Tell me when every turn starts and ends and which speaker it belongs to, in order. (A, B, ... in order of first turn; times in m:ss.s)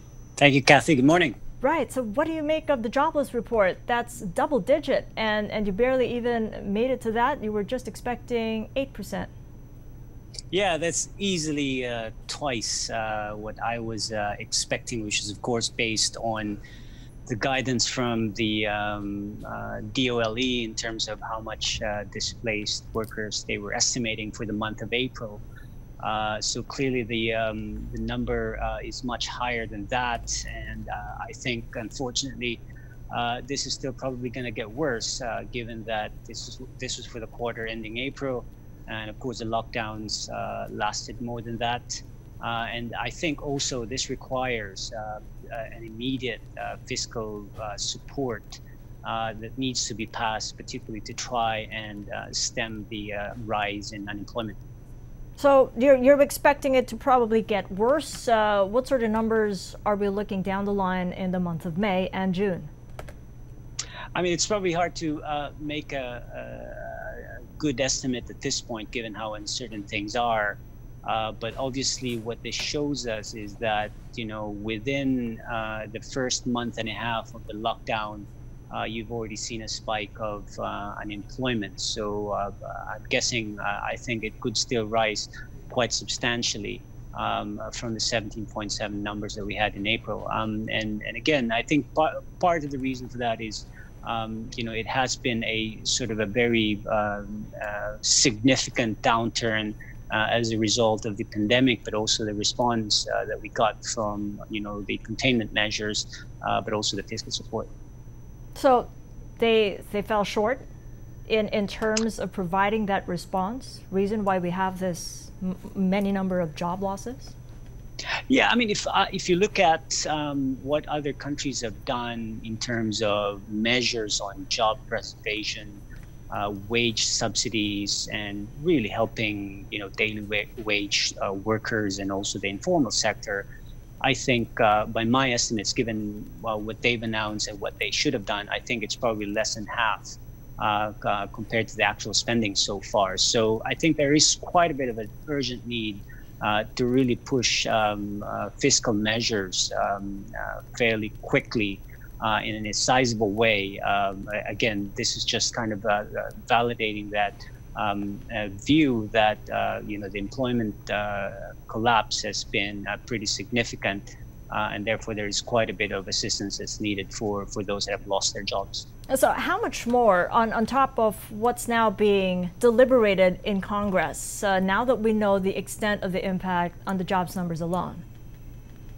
0:00.4-0:01.4 A
0:01.6-0:09.3 B
0:10.5-0:16.6 A
0:17.3-0:25.4 A
0:26.0-0:54.6 A
0:55.4-1:02.7 B
1:04.1-1:47.7 A
1:48.5-1:50.6 B
1:51.3-1:57.3 B
1:58.3-2:13.5 A
2:14.0-2:48.9 A
2:49.1-2:58.0 B